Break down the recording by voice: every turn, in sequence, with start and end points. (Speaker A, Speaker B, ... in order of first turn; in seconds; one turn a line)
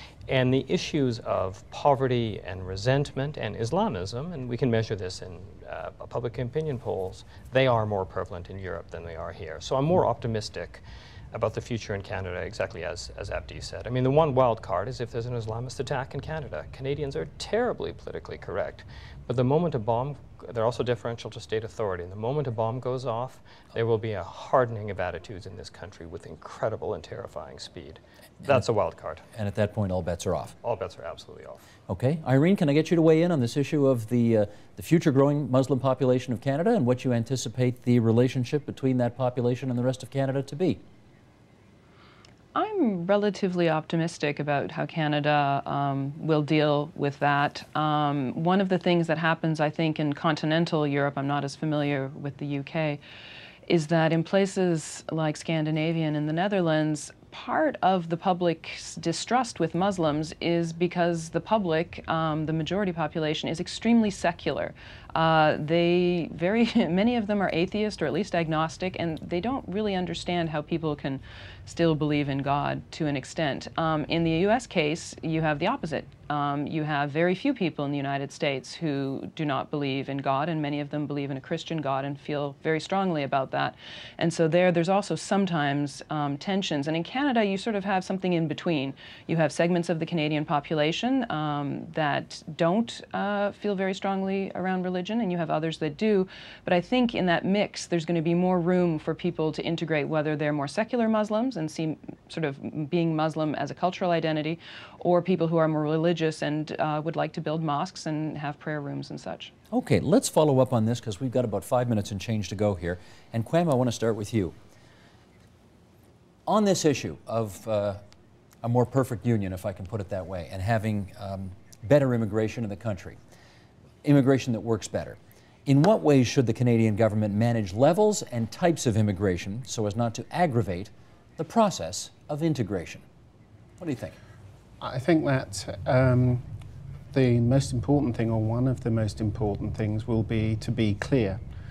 Speaker A: 0.3-29.2
Speaker B: 29.3-30.5
Speaker A: 30.6-31.6
Speaker B: 31.9-40.8
Speaker C: 42.5-53.0
Speaker C: 53.7-109.5
Speaker B: 109.7-114.5
Speaker B: 116.5-118.0
Speaker B: 118.6-123.2
Speaker B: 124.0-133.0
Speaker B: 133.8-134.1
Speaker D: 134.8-136.4
Speaker D: 137.1-141.4